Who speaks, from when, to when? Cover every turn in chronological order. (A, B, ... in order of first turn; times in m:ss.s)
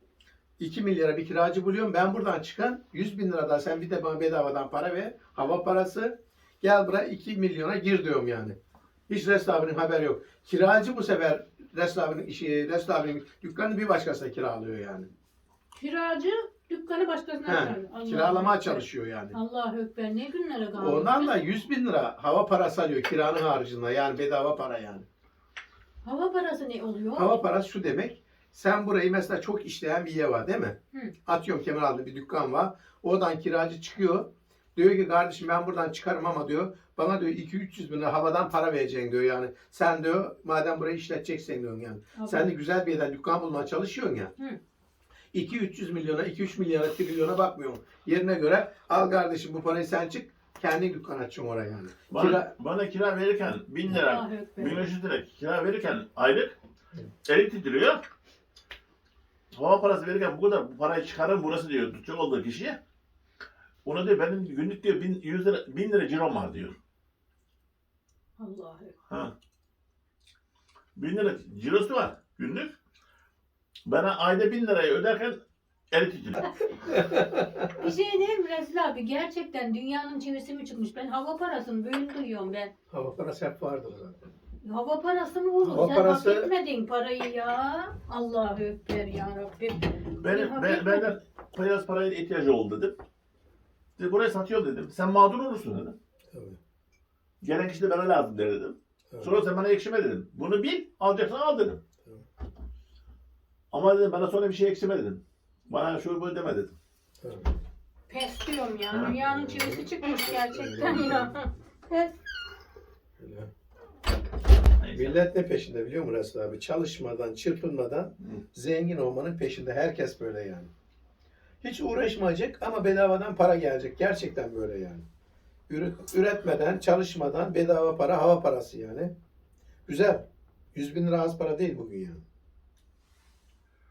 0:00.6-0:08.6 A
0:09.1-0:15.1 A
0:15.7-0:21.4 B
0:17.4-0:19.4 A
0:20.8-0:25.1 A
0:26.0-0:27.4 B
0:27.2-0:44.3 A
0:42.2-0:42.5 B
0:45.3-0:52.5 A
0:52.1-0:56.6 C
0:53.9-0:54.8 B
0:57.3-0:58.0 C
0:59.5-1:02.8 C
1:03.8-1:06.8 C
1:08.4-1:08.9 B
1:11.0-1:12.7 C
1:13.9-1:15.4 C
1:15.9-1:16.5 C
1:16.9-1:17.7 A
1:17.8-1:22.7 B
1:22.9-1:24.2 A
1:24.6-1:31.2 B
1:25.6-1:26.5 A
1:30.2-1:33.0 C
1:34.0-1:36.0 C
1:36.3-1:36.6 A
1:37.4-1:41.8 C
1:39.1-1:39.4 A
1:43.7-1:46.8 C
1:47.2-1:47.6 A
1:48.1-1:52.1 B
1:49.1-1:51.5 A
1:53.2-1:53.5 A
1:54.8-1:55.2 C
1:54.9-2:00.7 A
2:01.6-2:05.0 A
2:05.7-2:09.1 A
2:09.9-2:12.2 A